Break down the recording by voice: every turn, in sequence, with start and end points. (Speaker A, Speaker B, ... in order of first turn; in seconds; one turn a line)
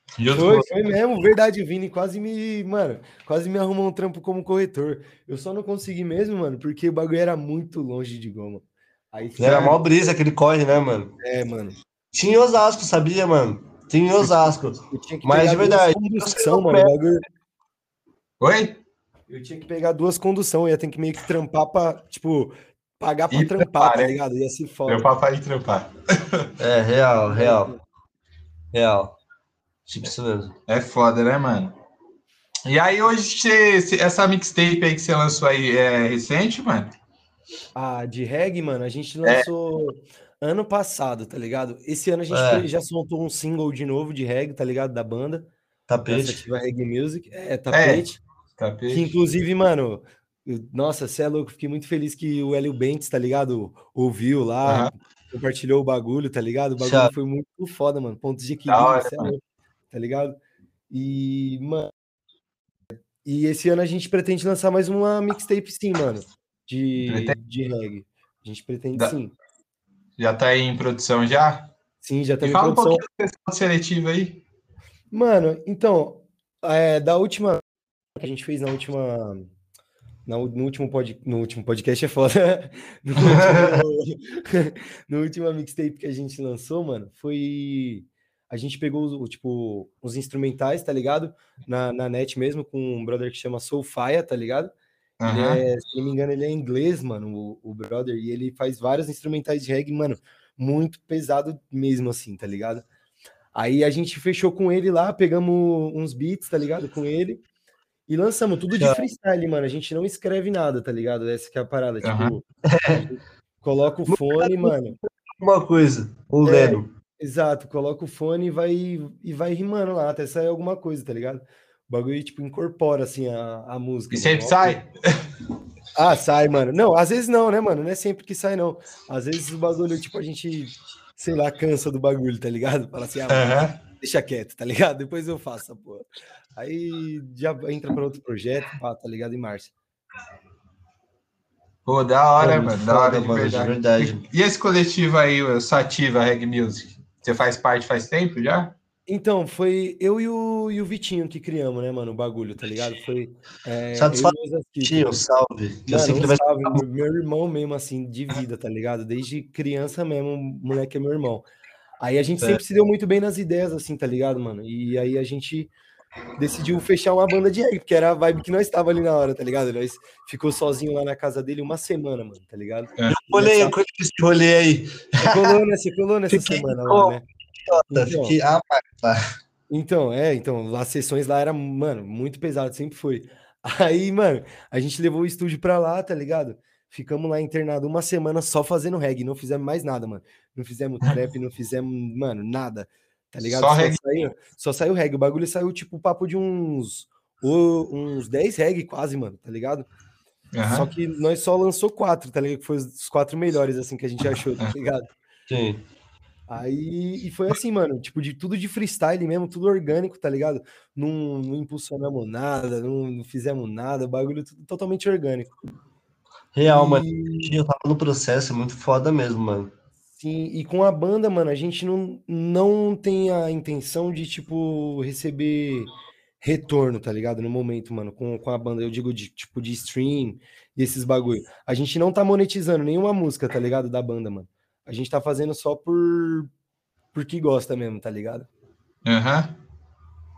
Speaker A: 0.2-0.7
Speaker B: 0.4-9.8
Speaker C: 9.4-11.1
Speaker B: 11.2-11.8
Speaker C: 12.1-16.9
Speaker B: 14.9-17.2
Speaker A: 18.4-18.8
Speaker B: 19.3-25.1
Speaker A: 23.3-24.2
Speaker A: 24.9-26.5
Speaker C: 26.6-27.7
Speaker B: 27.3-27.8
Speaker C: 28.7-29.2
Speaker C: 29.9-30.5
Speaker A: 30.7-31.7
Speaker A: 32.7-36.9
Speaker B: 37.8-45.5
Speaker C: 42.3-42.6
Speaker C: 45.9-46.4
Speaker B: 46.1-48.2
Speaker A: 47.7-48.1
Speaker A: 48.6-49.1
Speaker B: 48.9-59.4
Speaker A: 54.6-54.9
Speaker C: 56.8-57.1
Speaker A: 58.7-59.3
Speaker B: 59.9-60.4
Speaker B: 60.9-61.9
Speaker B: 63.2-69.3
Speaker A: 67.0-67.4
Speaker A: 70.2-71.7
Speaker B: 72.0-73.0
Speaker A: 72.4-74.4
Speaker B: 75.1-77.6
Speaker B: 78.2-79.5
Speaker B: 80.3-94.7
Speaker C: 83.2-83.8
Speaker A: 95.2-95.6
Speaker B: 95.2-102.8
Speaker B: 103.5-107.4
Speaker B: 108.1-115.0
Speaker C: 108.7-109.1
Speaker A: 112.0-112.4
Speaker C: 112.7-113.1
Speaker C: 114.1-116.9
Speaker B: 116.4-124.8
Speaker A: 124.1-125.2
Speaker B: 126.0-139.7
Speaker A: 133.3-133.8
Speaker A: 141.9-148.7
Speaker C: 142.4-144.2
Speaker B: 149.1-155.2
Speaker C: 154.0-156.8
Speaker B: 155.9-161.4
Speaker B: 162.0-165.7
Speaker B: 166.4-173.8
Speaker C: 173.1-175.6
Speaker B: 175.2-177.2
Speaker C: 176.3-179.2
Speaker B: 177.9-178.4
Speaker B: 179.7-199.9
Speaker A: 193.5-194.0
Speaker A: 200.5-200.9
Speaker B: 200.7-205.1
Speaker C: 205.5-205.8
Speaker B: 206.5-215.5
Speaker C: 216.5-219.7
Speaker B: 216.7-217.6
Speaker B: 220.2-236.5
Speaker B: 237.1-238.5
Speaker A: 239.1-239.6